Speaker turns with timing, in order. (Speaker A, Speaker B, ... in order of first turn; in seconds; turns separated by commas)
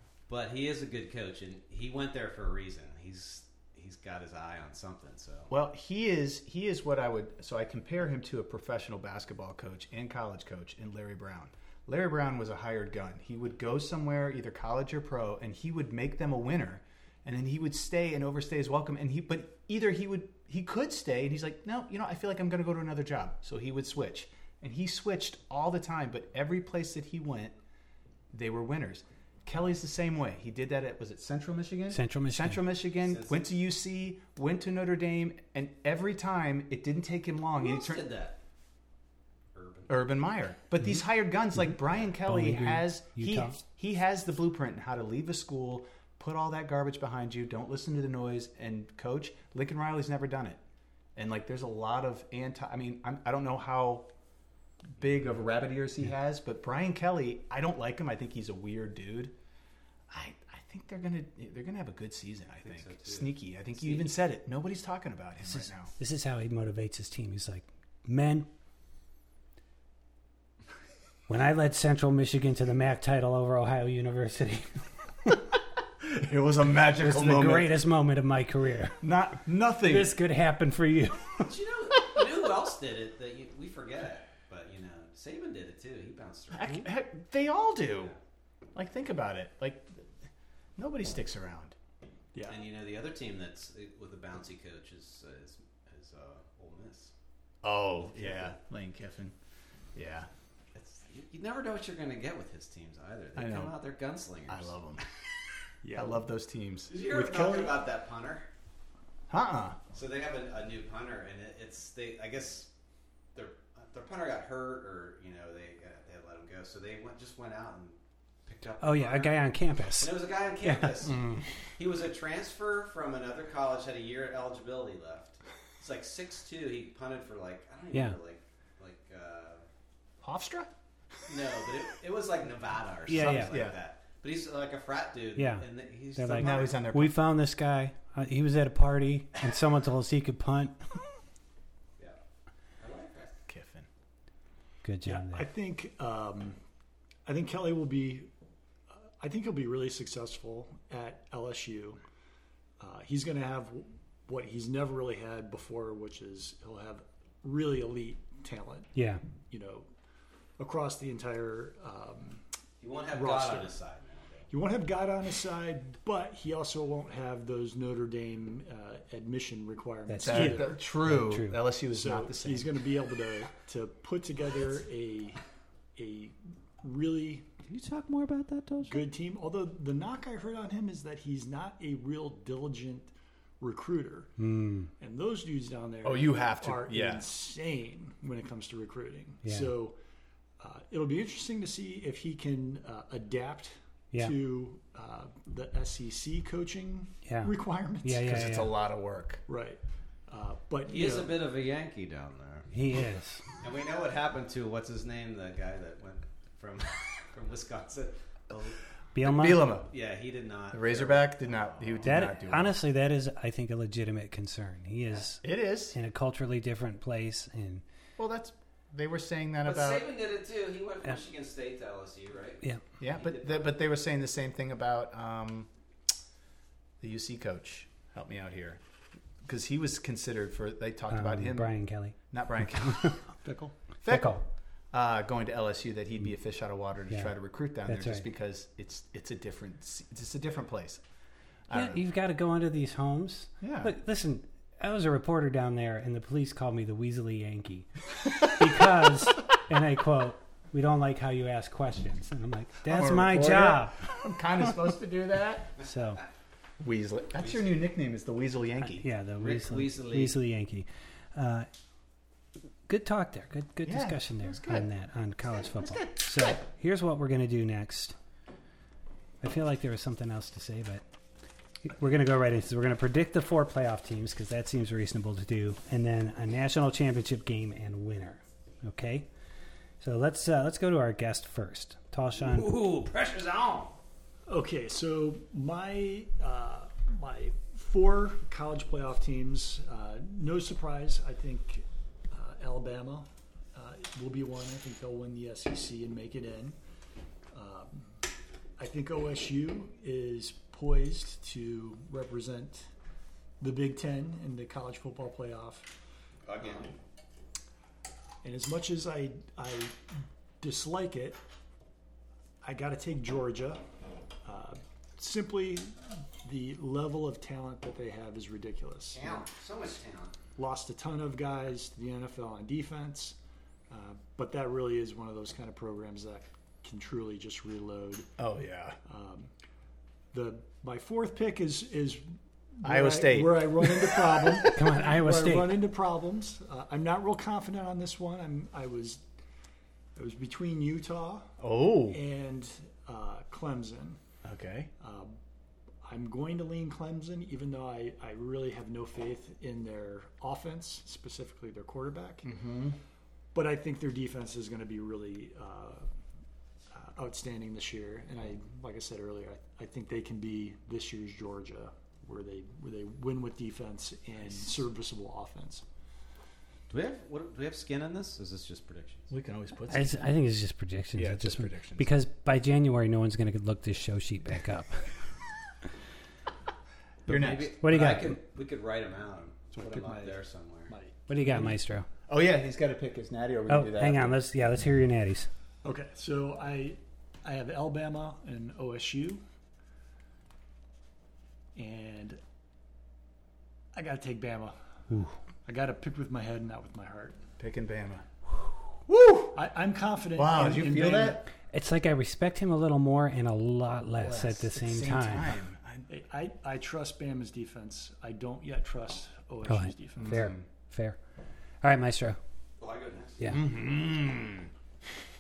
Speaker A: 0.3-5.5, Speaker B: 5.5-27.6, Speaker B: 28.3-38.1, Speaker C: 31.9-32.6, Speaker A: 33.0-33.5, Speaker A: 37.6-38.4, Speaker A: 39.5-40.0, Speaker B: 39.9-50.6, Speaker C: 42.2-43.6, Speaker B: 51.2-54.1, Speaker B: 55.0-59.4, Speaker B: 60.1-65.9, Speaker A: 62.6-64.1, Speaker C: 65.4-68.5, Speaker C: 71.3-75.3, Speaker B: 76.0-77.8, Speaker C: 77.0-79.0, Speaker B: 79.0-80.2, Speaker C: 79.8-81.5, Speaker A: 81.4-86.8, Speaker B: 86.5-88.1, Speaker B: 88.8-90.1, Speaker B: 90.8-91.8, Speaker D: 92.3-92.6, Speaker A: 92.5-97.1, Speaker B: 97.6-99.3, Speaker B: 100.0-100.3, Speaker A: 100.8-104.8, Speaker B: 103.4-103.8, Speaker B: 104.5-105.0, Speaker D: 105.8-106.2, Speaker B: 105.9-106.9, Speaker A: 106.9-108.5, Speaker D: 107.0-107.8, Speaker B: 109.3-109.8, Speaker A: 109.9-112.7, Speaker A: 113.3-121.2, Speaker C: 118.8-121.4, Speaker A: 121.8-129.6, Speaker B: 130.2-130.7, Speaker A: 131.3-136.8, Speaker C: 133.1-133.6, Speaker B: 133.1-133.8, Speaker C: 135.4-140.8, Speaker B: 136.3-137.2, Speaker A: 142.8-143.3, Speaker B: 143.5-143.9, Speaker C: 144.8-145.5, Speaker D: 145.1-146.6, Speaker D: 147.3-148.3, Speaker D: 148.9-152.0, Speaker D: 152.8-158.9, Speaker C: 158.9-159.2, Speaker D: 159.5-159.9, Speaker D: 160.6-162.4, Speaker A: 162.8-164.5, Speaker D: 163.1-163.7, Speaker D: 164.5-170.8, Speaker C: 170.1-171.6, Speaker B: 170.2-172.7, Speaker D: 171.9-175.4, Speaker D: 176.0-177.5, Speaker A: 177.7-179.1, Speaker D: 178.8-184.3, Speaker C: 184.4-184.9, Speaker D: 185.0-190.0, Speaker B: 186.0-187.3, Speaker C: 189.4-189.7, Speaker D: 190.6-198.5, Speaker C: 197.2-198.7, Speaker B: 198.3-199.4, Speaker D: 199.5-201.3, Speaker A: 200.9-202.7, Speaker C: 202.7-203.4, Speaker A: 203.6-208.8, Speaker C: 209.2-209.7, Speaker B: 209.2-209.9, Speaker A: 209.9-212.2, Speaker B: 210.7-212.8, Speaker C: 212.0-217.8, Speaker B: 215.4-216.0, Speaker B: 218.2-220.1, Speaker A: 219.6-223.7, Speaker B: 223.0-225.7, Speaker B: 227.0-228.8, Speaker B: 229.4-231.7, Speaker C: 231.1-233.2, Speaker B: 232.3-233.2, Speaker D: 233.4-233.8, Speaker B: 234.0-241.0, Speaker C: 234.1-234.4, Speaker C: 237.9-238.3, Speaker B: 241.7-242.0, Speaker C: 241.7-247.9, Speaker B: 243.6-243.9, Speaker C: 248.4-254.0, Speaker B: 252.9-255.8, Speaker C: 255.8-256.2, Speaker B: 256.8-259.1, Speaker C: 258.9-261.7, Speaker A: 259.4-260.4, Speaker C: 262.9-268.2, Speaker B: 263.9-264.9, Speaker B: 265.9-266.6, Speaker C: 269.4-271.0, Speaker C: 271.8-279.3, Speaker C: 280.0-282.7, Speaker A: 282.4-283.9, Speaker D: 284.5-296.8, Speaker D: 297.5-298.1, Speaker D: 298.8-302.9, Speaker D: 303.6-305.9, Speaker A: 306.5-306.9, Speaker D: 308.4-310.1, Speaker D: 310.6-311.4, Speaker D: 312.6-313.8, Speaker D: 314.4-319.5, Speaker A: 319.1-320.3, Speaker D: 320.6-323.4, Speaker D: 323.9-328.3, Speaker B: 328.4-329.0, Speaker D: 329.1-329.5, Speaker D: 330.3-332.2, Speaker D: 332.8-339.2, Speaker B: 332.8-334.7, Speaker C: 334.7-335.8, Speaker D: 340.2-341.5, Speaker B: 341.6-342.2, Speaker D: 342.1-344.2, Speaker B: 344.4-344.9, Speaker D: 345.0-345.4, Speaker D: 346.0-352.5, Speaker B: 352.4-353.0, Speaker D: 353.5-356.1, Speaker D: 356.9-365.9, Speaker A: 366.9-369.3, Speaker B: 369.3-370.2, Speaker C: 369.9-375.2, Speaker B: 371.1-372.1, Speaker B: 377.3-377.8, Speaker A: 377.3-380.9, Speaker C: 377.8-378.4, Speaker D: 379.7-381.8, Speaker C: 381.3-382.1, Speaker B: 382.3-384.4, Speaker C: 383.7-385.5, Speaker D: 385.8-389.4, Speaker D: 391.8-392.4, Speaker D: 393.9-394.8, Speaker C: 395.1-395.4, Speaker D: 395.6-397.4, Speaker B: 397.6-398.2, Speaker B: 399.1-399.6, Speaker D: 399.5-401.4, Speaker B: 400.4-401.4, Speaker C: 401.7-405.5, Speaker B: 404.2-406.1, Speaker D: 406.1-410.3, Speaker C: 409.7-411.2, Speaker B: 410.2-410.6, Speaker C: 411.8-412.4, Speaker A: 412.8-413.7, Speaker B: 413.5-414.7